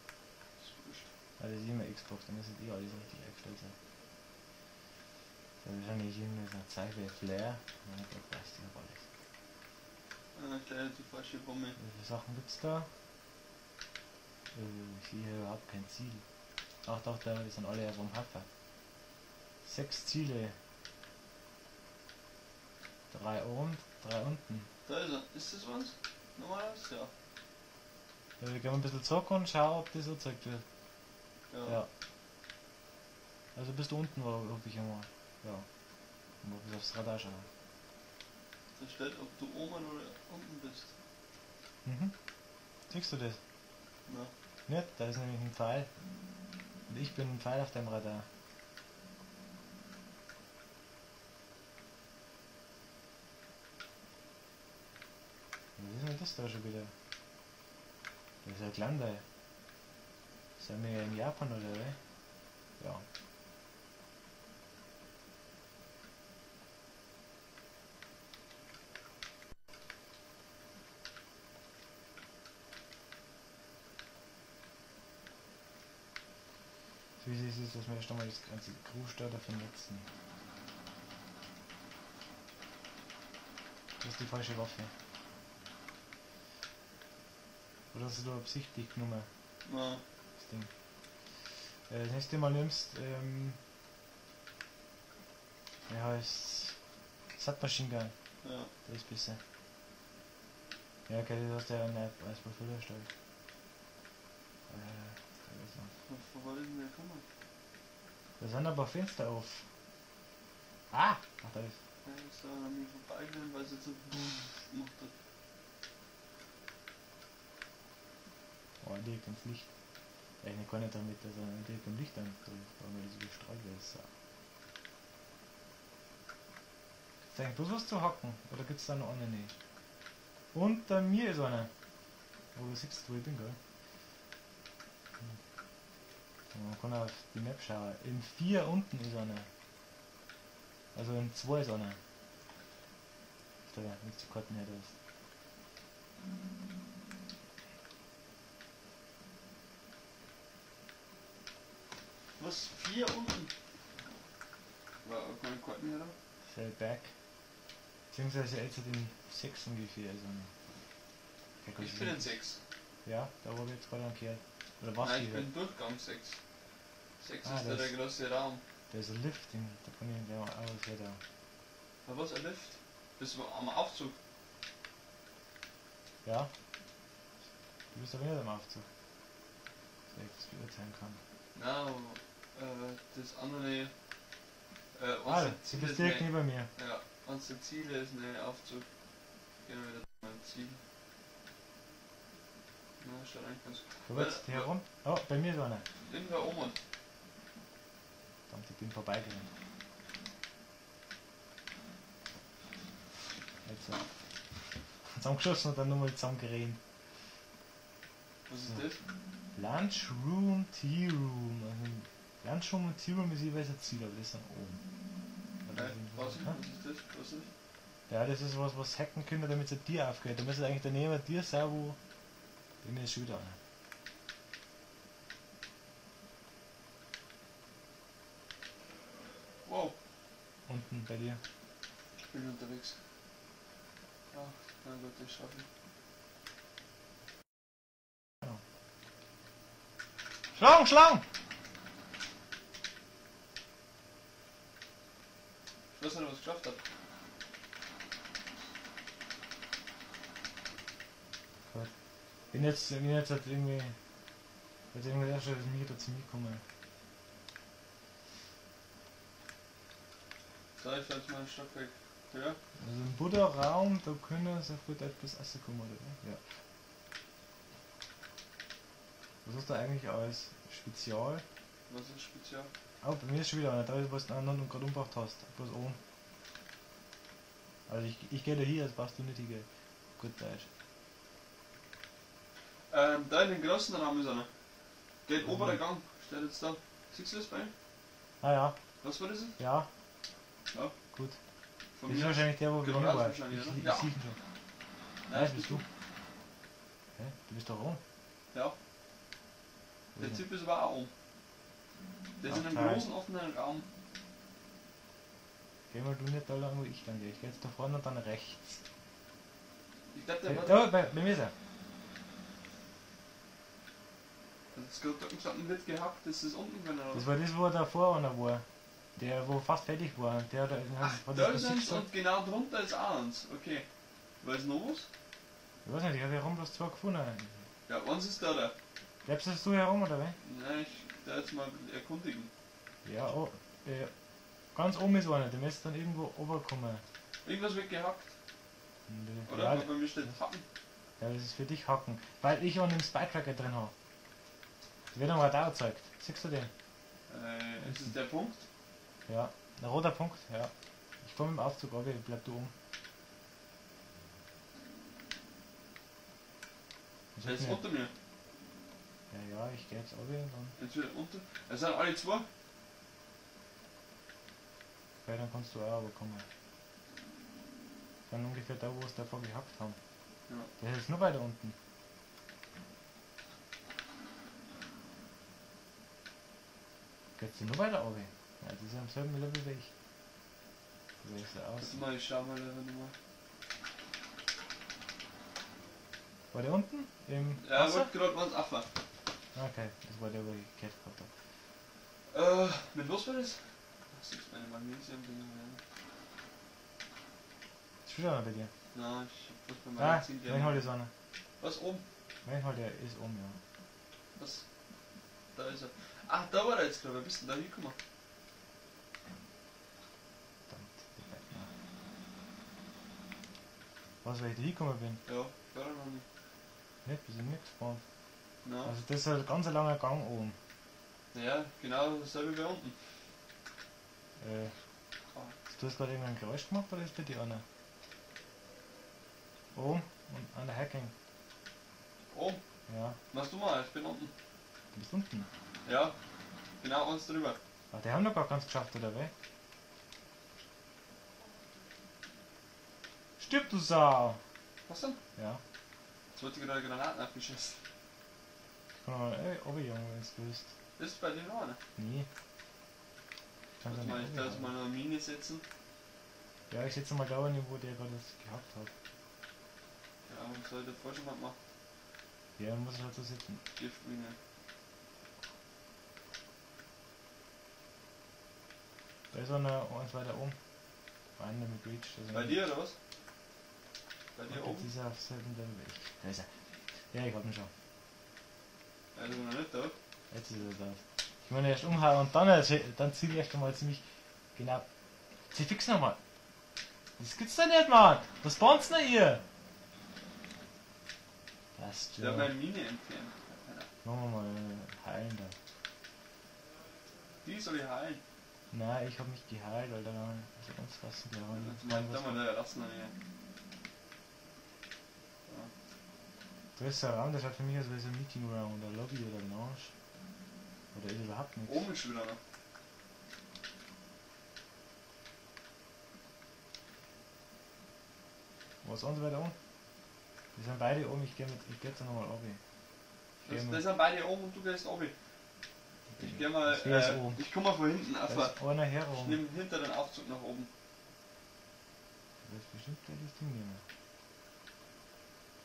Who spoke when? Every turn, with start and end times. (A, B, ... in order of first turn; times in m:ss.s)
0:00.6-0:01.1 A
0:01.4-0:03.7 B
0:05.6-0:09.0 B
0:10.3-0:11.8 A
0:11.8-0:12.9 B
0:14.5-0:16.2 B
0:16.8-0:18.5 B
0:19.6-0:20.6 B
0:23.1-0:24.7 B
0:24.8-0:27.1 A
0:28.4-0:30.6 B
0:31.5-0:31.8 A
0:33.5-0:35.6 B
0:36.4-0:37.5 B
0:38.8-0:40.9 A
0:41.8-0:42.1 B
0:42.9-0:43.4 B
0:44.1-0:44.3 A
0:44.7-0:45.9 B
0:46.9-0:48.2 B
0:55.8-0:56.9 B
0:58.4-0:59.2 B
1:00.6-1:02.0 B
1:02.8-1:03.0 B
1:17.2-1:20.1 B
1:24.0-1:24.9 B
1:27.9-1:29.3 B
1:29.6-1:30.0 A
1:30.4-1:30.7 B
1:31.9-1:33.6 B
1:35.9-1:36.8 B
1:37.4-1:38.1 B
1:38.4-1:38.7 A
1:38.8-1:39.4 B
1:41.1-1:43.1 B
1:44.7-1:45.9 B
1:46.0-1:47.2 A
1:48.4-1:49.6 B
1:50.9-1:51.8 B
1:52.0-1:55.1 A
1:58.8-1:59.7 B
2:00.4-2:04.1 B
2:07.3-2:09.5 B
2:10.5-2:11.7 B
2:12.5-2:13.6 B
2:16.5-2:19.5 B
2:20.9-2:22.0 B
2:23.7-2:24.9 B
2:32.4-2:33.5 A
2:35.0-2:36.1 A
2:36.5-2:37.1 B
2:38.1-2:40.5 B
2:41.6-2:42.3 B
2:41.8-2:42.6 A
2:43.0-2:45.5 B
2:45.0-2:46.4 A
2:47.2-2:48.6 A
2:47.4-2:47.9 B
2:48.9-2:51.2 B
2:52.0-2:54.1 A
2:56.2-2:56.5 B
2:57.9-2:58.8 B
3:00.1-3:01.2 B
3:01.5-3:03.9 A
3:04.9-3:08.8 A
3:05.3-3:06.7 B
3:09.6-3:10.8 A
3:13.0-3:14.7 A
3:14.0-3:15.8 B
3:16.0-3:16.8 A
3:18.5-3:19.5 B
3:23.6-3:24.0 B
3:25.1-3:26.8 B
3:28.5-3:29.0 A
3:29.5-3:34.8 B
3:35.6-3:36.6 B
3:35.7-3:37.5 A
3:38.1-3:42.0 B
3:42.8-3:43.6 B
3:49.6-3:49.9 A
3:50.7-3:51.4 B
3:52.3-3:53.0 A
3:54.3-3:55.6 A
4:00.5-4:01.2 B
4:05.9-4:06.8 A
4:12.5-4:14.0 B
4:14.9-4:16.6 B
4:20.8-4:22.6 A
4:22.8-4:26.4 B
4:29.4-4:31.4 B
4:31.9-4:32.7 A
4:33.0-4:36.0 B
4:37.9-4:39.7 B
4:40.2-4:40.7 B
4:42.9-4:44.5 A
4:45.2-4:47.7 A
4:45.4-4:45.8 B
4:48.4-4:48.8 B
4:49.0-4:49.6 A
4:49.6-4:49.9 B
4:52.0-4:54.1 A
4:52.0-4:54.4 B
4:55.3-4:55.8 A
4:55.3-4:55.8 B
4:57.2-4:58.0 B
5:00.2-5:00.4 B
5:00.2-5:01.1 A
5:02.4-5:03.8 A
5:02.4-5:03.1 B
5:05.9-5:08.8 B
5:10.1-5:10.9 A
5:10.4-5:11.5 B
5:14.7-5:17.3 A
5:17.1-5:18.6 B
5:19.2-5:22.1 B
5:21.0-5:23.8 A
5:24.4-5:25.1 A
5:25.8-5:27.6 B
5:27.9-5:28.7 A
5:29.2-5:30.4 B
5:30.4-5:32.5 A
5:33.0-5:34.1 B
5:34.7-5:37.0 B
5:37.4-5:38.3 A
5:39.1-5:40.3 B
5:39.5-5:40.6 A
5:41.2-5:43.9 B
5:45.1-5:46.7 B
5:47.3-5:48.6 A
5:49.3-5:50.7 B
5:51.2-5:52.7 B
5:57.3-5:57.8 B
5:57.4-5:58.1 A
5:59.3-6:00.7 B
6:00.8-6:02.4 A
6:05.2-6:06.4 B
6:08.3-6:10.0 B
6:10.8-6:11.7 B
6:17.4-6:19.9 B
6:21.2-6:22.0 B
6:21.8-6:23.1 A
6:26.5-6:28.1 B
6:27.6-6:28.9 A
6:29.5-6:31.3 B
6:32.3-6:35.8 A
6:38.0-6:38.7 B
6:38.9-6:40.9 A
6:40.0-6:41.1 B
6:41.6-6:42.0 A
6:42.4-6:43.6 B
6:44.4-6:44.6 A
6:45.5-6:48.0 A
6:50.7-6:51.7 B
6:54.2-6:55.2 B
6:55.3-6:56.2 A
6:57.0-6:58.0 B
6:58.6-6:58.9 A
6:58.8-7:00.6 B
7:01.3-7:03.0 A
7:04.4-7:04.7 B
7:05.7-7:07.6 B
7:09.7-7:11.1 B
7:12.3-7:12.6 A
7:12.9-7:13.2 B
7:13.3-7:14.3 A
7:14.9-7:15.5 B
7:15.8-7:16.1 A
7:16.8-7:17.6 A
7:17.9-7:19.3 B
7:23.4-7:24.4 B
7:24.8-7:25.2 A
7:25.4-7:25.6 B
7:26.3-7:27.8 A
7:29.0-7:30.7 B
7:31.0-7:31.8 A
7:32.0-7:32.3 B
7:33.8-7:34.7 B
7:33.9-7:35.6 A
7:36.7-7:38.9 B
7:40.3-7:41.6 A
7:42.6-7:43.6 B
7:43.8-7:44.4 A
7:49.3-7:50.6 B
7:51.4-7:52.6 B
7:52.3-7:52.9 A
7:54.4-7:54.9 A
7:54.5-7:56.5 B
7:57.1-7:57.7 B
7:59.1-7:59.9 A
8:00.3-8:04.0 B
8:04.5-8:04.8 B
8:05.5-8:06.2 B
8:07.2-8:09.4 B
8:11.7-8:12.5 B
8:12.2-8:13.9 A
8:14.0-8:15.5 B
8:17.4-8:18.2 A
8:18.7-8:22.4 B
8:21.5-8:23.1 A
8:26.8-8:29.9 B
8:30.9-8:31.9 B
8:31.7-8:32.4 A
8:38.8-8:39.5 B
8:40.5-8:42.6 B
8:43.4-8:43.8 B
8:43.4-8:45.1 A
8:46.1-8:47.4 B
8:46.2-8:48.6 A
8:48.3-8:49.4 B
8:49.1-8:50.7 A
8:52.4-8:53.8 B